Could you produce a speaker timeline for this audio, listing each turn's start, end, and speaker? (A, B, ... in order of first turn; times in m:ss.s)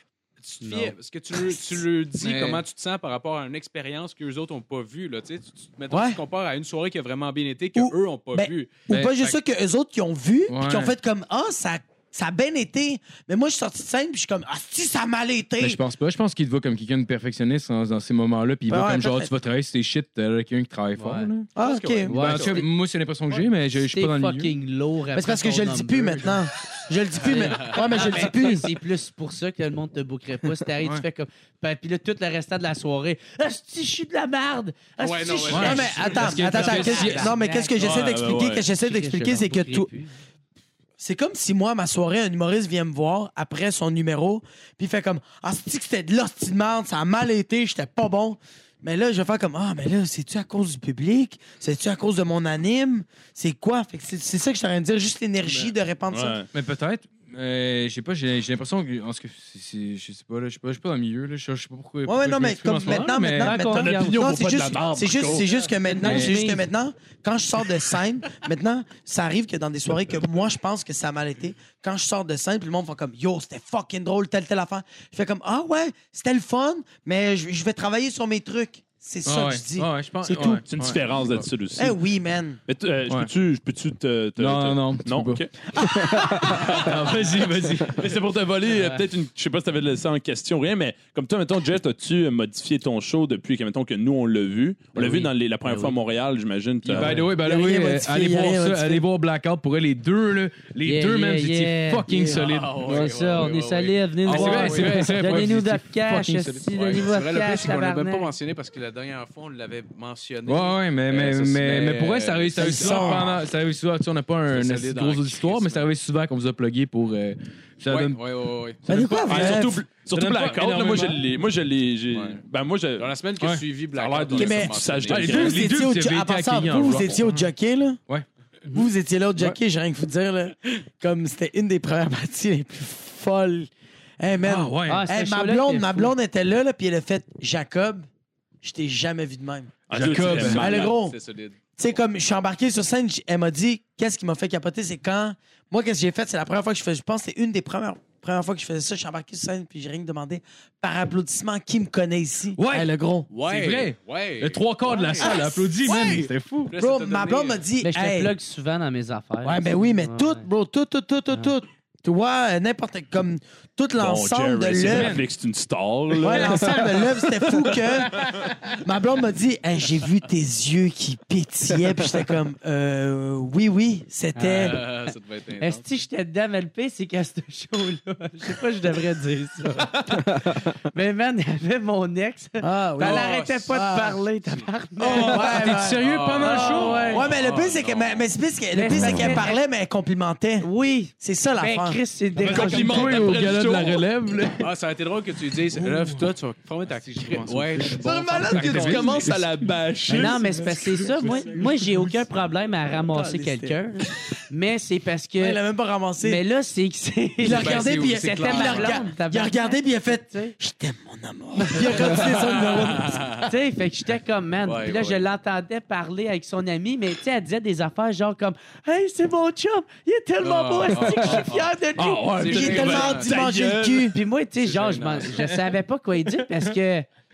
0:00.4-0:08.7 A
0:00.6-0:01.0 B
0:02.2-0:02.6 C
0:05.9-0:06.2 D
0:07.8-0:15.8 D
0:08.9-0:09.4 C
0:10.5-0:10.9 C
0:15.6-0:21.5 C
0:18.7-0:19.3 D
0:21.0-0:21.3 B
0:21.6-0:22.5 D
0:21.6-0:22.1 A
0:22.1-0:22.7 B
0:22.1-0:24.5 C
0:23.3-0:26.4 B
0:25.1-0:28.7 D
0:27.2-0:28.0 A
0:27.6-0:40.1 B
0:35.0-0:36.5 A
0:35.5-0:37.3 C
0:35.6-0:39.9 D
0:37.8-0:38.7 E
0:41.0-0:56.4 D
0:56.1-0:56.5 E
0:56.5-1:03.5 C
1:02.0-1:20.6 D
1:03.0-1:04.2 B
1:03.7-1:05.7 E
1:05.8-1:06.6 B
1:06.0-1:06.3 C
1:19.2-1:21.0 C
1:20.7-1:22.0 E
1:21.8-1:22.6 D
1:22.7-1:25.5 E
1:24.4-1:28.0 C
1:26.2-1:27.1 E
1:27.9-1:37.2 E
1:35.0-1:36.0 B
1:36.9-1:39.0 D
1:36.9-1:42.9 C
1:40.8-1:48.3 B
1:42.3-1:45.3 A
1:44.3-1:46.6 C
1:46.7-1:53.2 A
1:50.5-1:58.2 C
1:52.6-1:53.4 D
1:54.5-1:55.9 A
1:57.9-1:58.8 A
1:58.9-1:59.8 D
1:58.9-2:03.1 E
1:59.3-2:01.2 C
2:02.1-2:02.4 A
2:03.0-2:05.4 A
2:03.9-2:05.7 E
2:04.4-2:08.0 D
2:05.1-2:07.5 C
2:08.7-2:13.7 D
2:14.2-2:18.1 D
2:14.4-2:15.0 C
2:14.9-2:16.1 B
2:18.6-2:19.7 D
2:19.9-2:21.0 E
2:19.9-2:20.6 C
2:20.3-2:21.6 A
2:20.4-2:21.2 D
2:21.8-2:33.3 D
2:32.6-2:36.7 C
2:33.3-2:35.4 A
2:35.2-2:38.3 D
2:36.7-2:37.6 A
2:37.8-2:40.4 B
2:39.4-2:45.2 D
2:44.0-2:47.0 E
2:44.8-2:45.2 C
2:46.2-2:54.8 D
2:46.3-2:47.0 C
2:54.4-2:54.9 B
2:54.5-2:55.8 A
2:55.6-3:05.7 B
3:02.6-3:04.2 D
3:03.0-3:03.7 A
3:05.0-3:06.0 D
3:05.1-3:07.1 C
3:06.0-3:08.3 A
3:06.4-3:07.2 B
3:07.1-3:10.7 D
3:08.7-3:09.6 B
3:09.0-3:09.3 E
3:10.6-3:13.3 B
3:11.2-3:12.0 D
3:12.4-3:14.7 C
3:12.5-3:14.0 E
3:14.6-3:19.2 A
3:15.8-3:16.2 C
3:16.9-3:20.2 C
3:18.0-3:20.4 E
3:18.1-3:19.0 D
3:20.1-3:25.6 B
3:20.3-3:22.0 D
3:23.1-3:23.8 D
3:25.4-3:26.4 D
3:26.2-3:30.6 B
3:27.4-3:33.3 D
3:27.4-3:29.1 A
3:31.6-3:32.2 B
3:32.2-3:33.5 A
3:33.4-3:42.9 B
3:34.6-3:35.2 A
3:40.4-3:41.7 A
3:41.0-3:44.2 E
3:42.3-3:43.3 A
3:42.4-3:44.2 D
3:44.1-3:47.1 B
3:44.6-3:45.4 A